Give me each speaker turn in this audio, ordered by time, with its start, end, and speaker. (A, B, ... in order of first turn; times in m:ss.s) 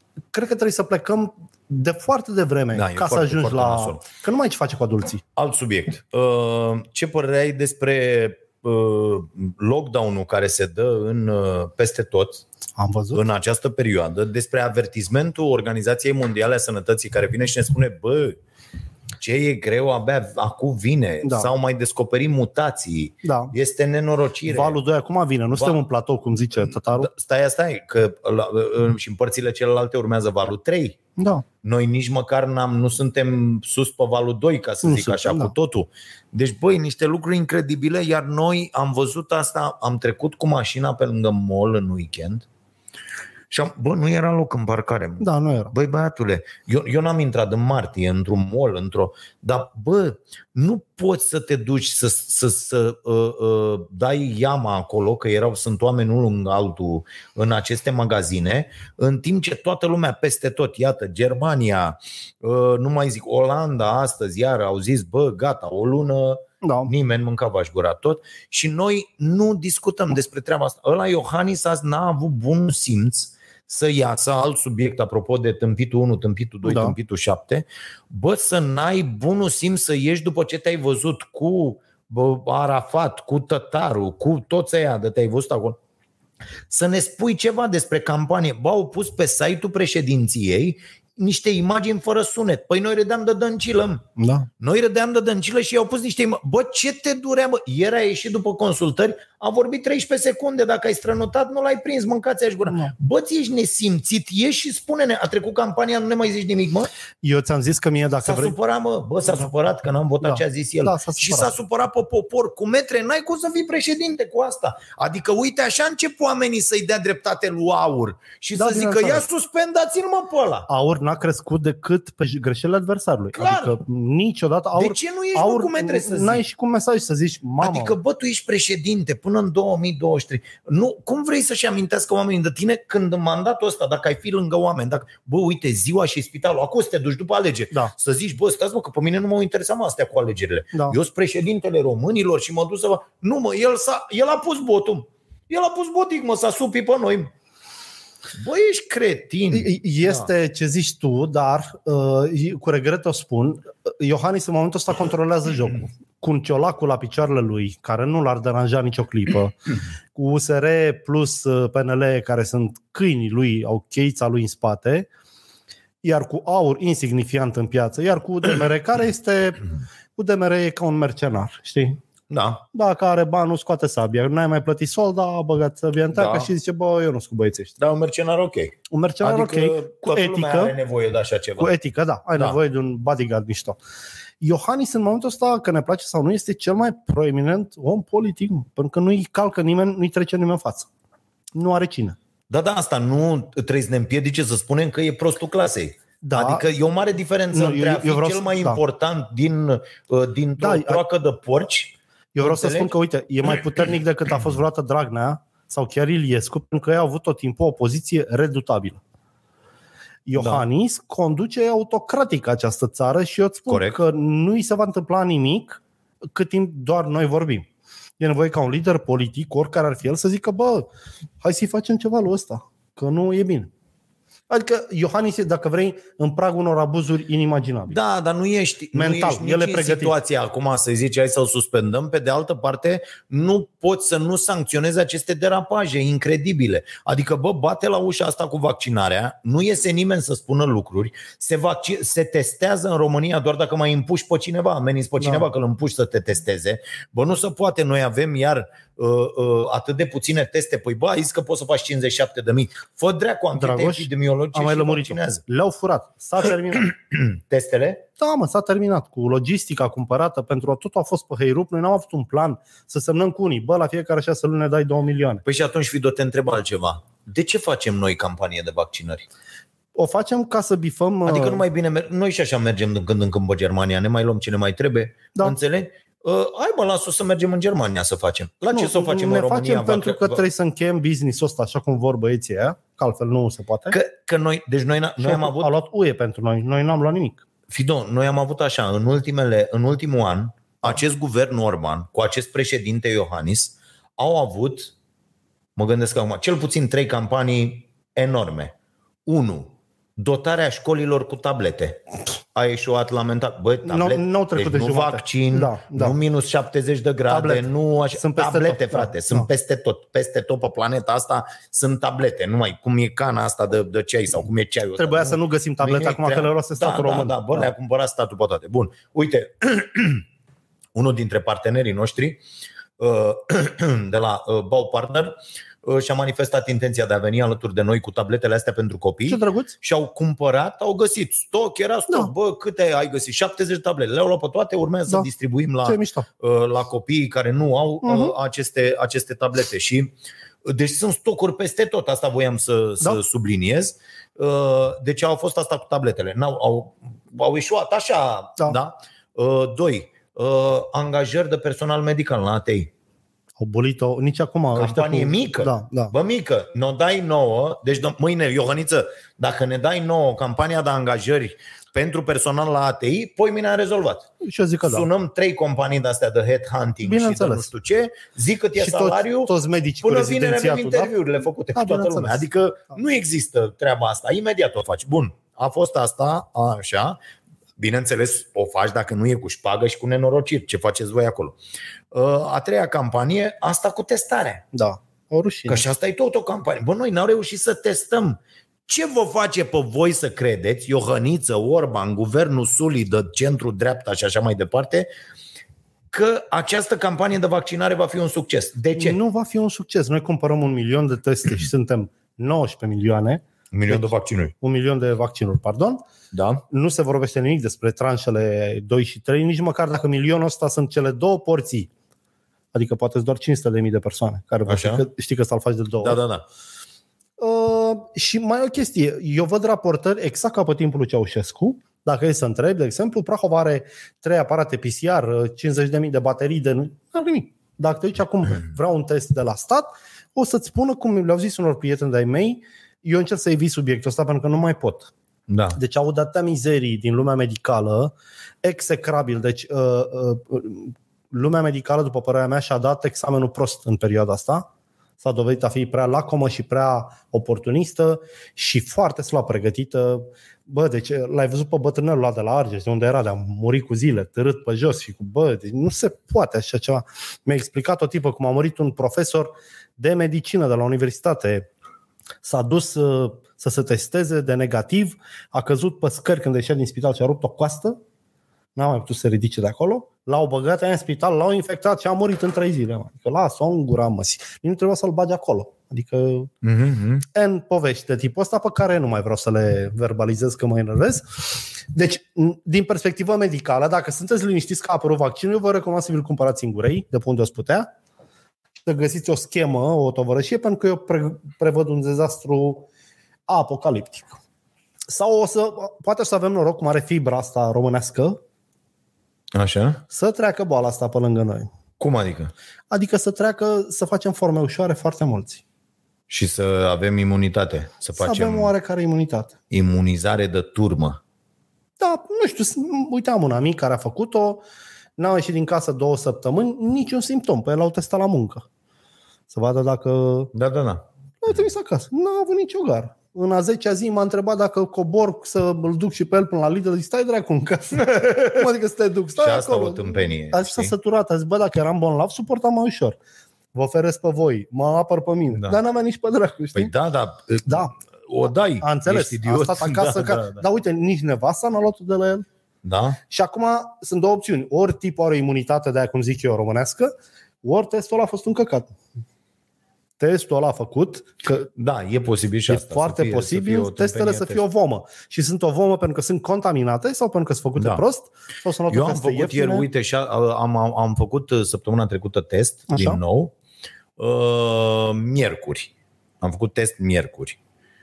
0:00.3-0:05.2 A
0:02.7-0:04.0 B
0:05.4-0:12.4 B
0:12.8-0:13.2 A
0:13.1-0:18.4 B
0:19.2-0:24.8 B
0:21.2-0:21.5 A
0:23.2-0:23.5 A
0:24.5-0:27.1 A
0:26.9-0:31.0 B
0:31.2-0:31.4 A
0:31.6-0:42.4 B
0:34.8-0:35.5 A
0:43.5-1:25.8 B
0:45.2-0:45.7 A
1:06.6-1:06.9 A
1:16.6-1:17.0 A
1:26.7-1:34.0 B
1:34.2-1:34.5 A
1:34.6-1:46.9 B
1:42.7-1:42.9 A
1:47.2-1:48.6 A
1:48.2-2:00.7 B
1:50.2-1:51.5 A
1:58.5-1:59.2 A
2:00.7-2:08.0 A
2:03.3-2:03.8 B
2:04.7-2:06.4 B
2:07.6-2:27.3 B
2:28.3-2:30.3 B
2:29.5-2:39.6 A
2:40.1-2:45.1 A
2:46.0-2:52.0 A
2:52.3-2:52.6 B
2:52.7-2:57.8 A
2:56.1-2:56.5 B
2:57.8-3:01.7 B
2:58.9-3:00.7 A
3:01.6-3:03.8 A
3:04.4-3:10.9 A
3:11.5-3:12.2 A
3:12.5-3:22.9 B
3:16.2-3:16.6 A
3:17.5-3:18.8 A
3:20.6-3:21.0 A
3:22.3-3:29.0 A
3:30.2-3:35.8 A
3:30.4-3:30.6 B
3:33.7-3:34.0 B
3:36.3-3:37.6 A
3:38.2-3:40.9 A
3:41.4-3:43.7 A
3:44.5-3:48.0 A
3:47.9-4:15.4 B
3:48.9-3:50.2 A
4:05.2-4:05.4 A
4:13.6-4:16.9 A
4:16.8-4:18.0 B
4:18.2-4:25.4 A
4:25.4-4:29.2 B
4:30.0-4:31.6 A
4:31.2-4:40.4 B
4:38.7-4:44.0 A
4:43.9-4:45.7 B
4:45.2-4:47.4 A
4:47.7-4:54.9 B
4:55.8-4:58.7 B
4:59.2-5:02.0 B
5:02.5-5:20.2 B
5:03.8-5:06.2 A
5:07.3-5:09.5 A
5:15.0-5:17.7 A
5:20.9-5:22.4 B
5:23.0-5:40.1 B
5:29.2-5:29.8 A
5:35.8-5:36.3 A
5:38.0-5:38.3 A
5:40.6-5:52.9 B
5:53.6-5:56.1 A
5:54.7-6:04.3 B
6:04.4-6:05.1 A
6:04.8-6:17.2 B
6:07.0-6:07.7 A
6:08.8-6:11.1 A
6:11.7-6:12.4 A
6:17.8-6:21.6 B
6:22.1-6:24.6 B
6:24.7-6:25.9 A
6:25.7-6:35.1 B
6:36.1-6:39.2 B
6:38.9-6:46.0 A
6:43.7-6:44.5 B
6:46.3-6:46.6 B
6:46.7-6:51.9 A
6:52.7-6:56.2 A
6:54.7-6:55.0 B
6:56.0-6:56.4 B
6:57.4-7:15.1 A
7:15.5-7:15.8 B
7:15.7-7:24.7 A
7:25.2-7:41.7 A
7:42.4-7:48.0 A
7:48.8-7:56.5 A
7:56.6-7:57.2 B
7:57.3-8:07.9 A
8:08.8-8:12.9 A
8:13.5-8:14.4 A
8:15.1-8:18.4 A
8:19.5-8:20.0 B
8:20.1-8:21.7 A
8:22.0-8:22.5 B
8:22.9-8:25.6 A
8:26.3-8:28.7 B
8:28.2-8:29.5 A
8:29.7-8:31.2 B
8:32.0-8:34.6 A
8:35.2-8:38.6 A
8:39.5-8:40.5 A
8:40.5-8:41.0 B
8:41.4-8:53.2 A
8:48.0-8:48.7 B
8:49.4-8:50.9 B
8:53.7-8:56.9 A
8:56.7-9:00.6 B
8:57.7-8:57.9 A
8:58.8-9:02.4 A
9:02.8-9:03.2 B
9:03.3-9:07.1 A
9:07.6-9:08.9 A
9:10.2-9:11.7 A
9:11.8-9:14.6 B
9:12.7-9:19.9 A
9:17.8-9:18.0 B
9:18.9-9:23.5 B
9:22.9-9:23.2 A
9:24.2-9:27.6 B